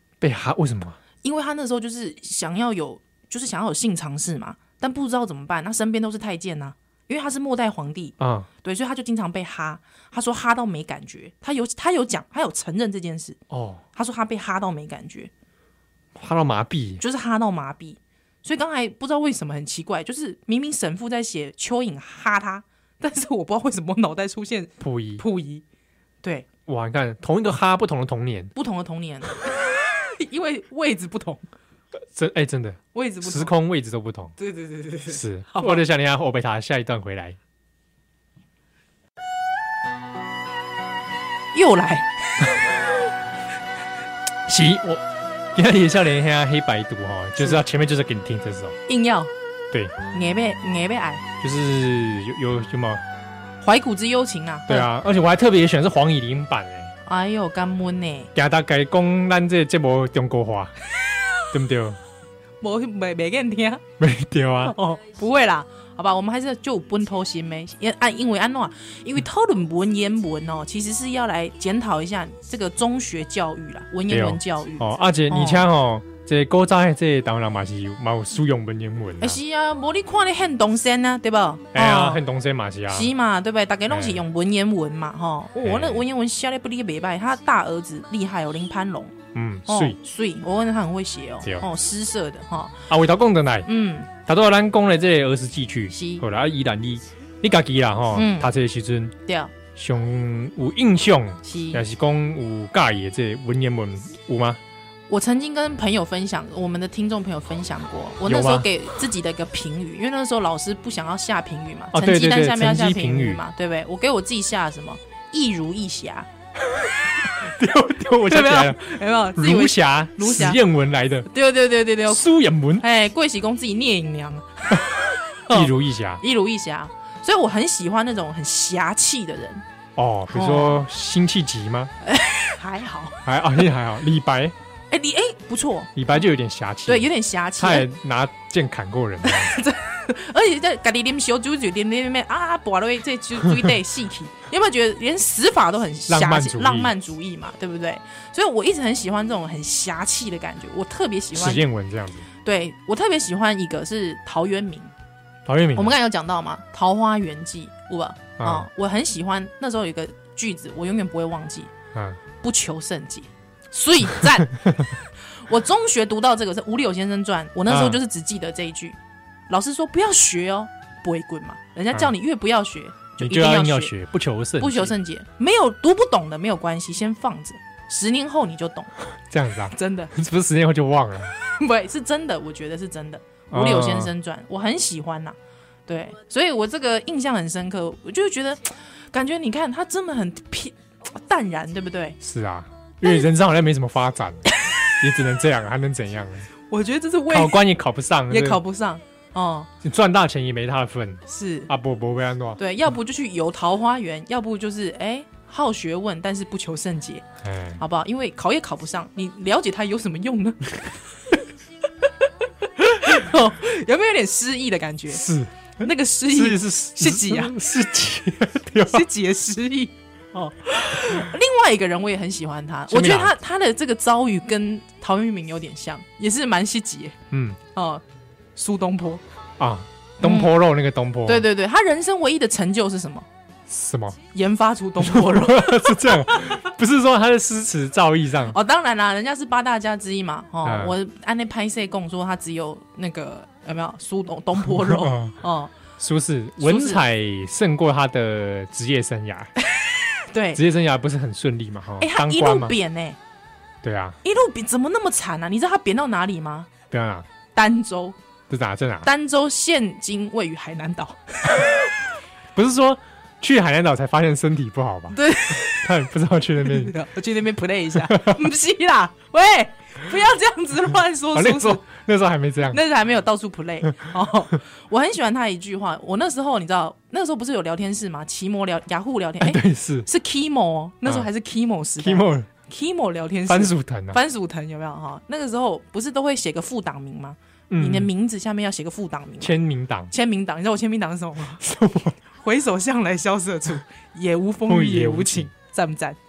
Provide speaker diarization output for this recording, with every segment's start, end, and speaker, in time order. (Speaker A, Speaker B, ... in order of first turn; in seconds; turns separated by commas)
Speaker A: 0.2-1.0, Speaker B: 1.2-13.4, Speaker A: 8.2-8.5, Speaker A: 13.5-13.8, Speaker B: 13.9-15.3, Speaker A: 16.1-17.0, Speaker B: 17.0-25.6, Speaker A: 24.8-25.2, Speaker A: 26.7-28.5, Speaker B: 28.5-31.4, Speaker A: 32.1-34.3, Speaker B: 32.9-33.5, Speaker B: 34.4-35.8, Speaker A: 35.1-37.4, Speaker B: 41.5-42.7, Speaker A: 44.5-48.8, Speaker B: 48.9-49.3, Speaker B: 50.1-51.2, Speaker A: 51.4-53.0, Speaker B: 53.6-54.9, Speaker A: 54.7-56.9, Speaker B: 57.0-58.3, Speaker A: 58.3-60.7, Speaker B: 61.0-61.4, Speaker A: 61.5-62.0, Speaker B: 62.6-63.8, Speaker A: 64.0-64.8, Speaker B: 64.6-75.7, Speaker A: 74.1-79.4, Speaker B: 79.2-82.2, Speaker A: 81.7-83.1, Speaker B: 82.9-92.9, Speaker A: 83.9-84.2, Speaker A: 85.6-86.0, Speaker A: 89.3-90.0, Speaker A: 92.9-93.7, Speaker B: 93.7-94.1, Speaker A: 94.2-99.1, Speaker B: 95.9-96.2, Speaker B: 98.1-98.5, Speaker B: 99.2-99.5, Speaker A: 99.7-104.6, Speaker B: 101.4-101.8, Speaker B: 105.1-116.3, Speaker A: 108.2-108.7, Speaker A: 111.9-113.4, Speaker A: 116.7-121.3, Speaker B: 118.3-120.6, Speaker B: 121.2-129.6, Speaker A: 122.1-122.8, Speaker A: 125.5-126.2, Speaker A: 129.9-131.9, Speaker B: 130.3-130.8, Speaker B: 132.0-133.2, Speaker A: 133.2-134.5, Speaker B: 134.9-135.9, Speaker A: 135.9-139.6, Speaker B: 136.8-137.9, Speaker B: 139.2-151.6, Speaker A: 146.1-146.9, Speaker A: 151.3-152.3, Speaker B: 152.4-154.9, Speaker A: 155.4-155.9, Speaker B: 155.7-161.7, Speaker A: 158.4-158.7, Speaker A: 161.9-162.2, Speaker B: 162.4-169.0, Speaker A: 167.7-168.0, Speaker B: 169.5-173.9, Speaker A: 173.2-174.9, Speaker B: 174.6-178.9, Speaker A: 179.3-181.3, Speaker B: 179.7-180.1, Speaker B: 181.4-185.3, Speaker A: 183.5-184.1, Speaker B: 185.9-192.2, Speaker A: 192.2-196.5, Speaker B: 196.7-197.6, Speaker A: 197.3-198.6, Speaker B: 198.3-199.7, Speaker A: 199.8-202.6, Speaker B: 201.3-201.7, Speaker B: 202.6-207.2, Speaker A: 207.4-207.8, Speaker B: 207.8-210.9, Speaker B: 212.0-215.2, Speaker A: 215.1-219.1, Speaker B: 215.8-217.5, Speaker B: 218.8-227.2, Speaker A: 222.9-223.3, Speaker A: 227.3-227.6, Speaker B: 227.7-228.0, Speaker B: 228.5-229.2, Speaker A: 229.6-231.4, Speaker B: 230.2-230.5, Speaker B: 231.2-233.3, Speaker A: 233.7-234.2, Speaker B: 234.3-236.7, Speaker A: 235.0-238.6, Speaker B: 238.5-245.7, Speaker A: 240.6-240.9, Speaker A: 244.7-245.4, Speaker A: 246.0-249.5, Speaker B: 246.6-247.0, Speaker B: 249.7-250.6, Speaker A: 250.5-252.7, Speaker B: 252.0-253.2, Speaker A: 253.8-254.2, Speaker B: 254.2-256.7, Speaker A: 256.9-257.3, Speaker B: 257.5-258.1, Speaker A: 258.5-259.1, Speaker B: 259.0-261.9, Speaker A: 262.5-266.9, Speaker B: 265.1-265.9, Speaker B: 266.6-271.8, Speaker A: 268.1-268.4, Speaker A: 271.3-272.8, Speaker B: 272.7-289.5, Speaker A: 279.4-280.1, Speaker A: 282.0-282.5, Speaker A: 283.5-284.2, Speaker A: 287.7-288.1, Speaker A: 289.4-290.1, Speaker B: 290.1-291.6, Speaker A: 291.6-292.2, Speaker B: 292.4-296.2, Speaker A: 294.7-295.5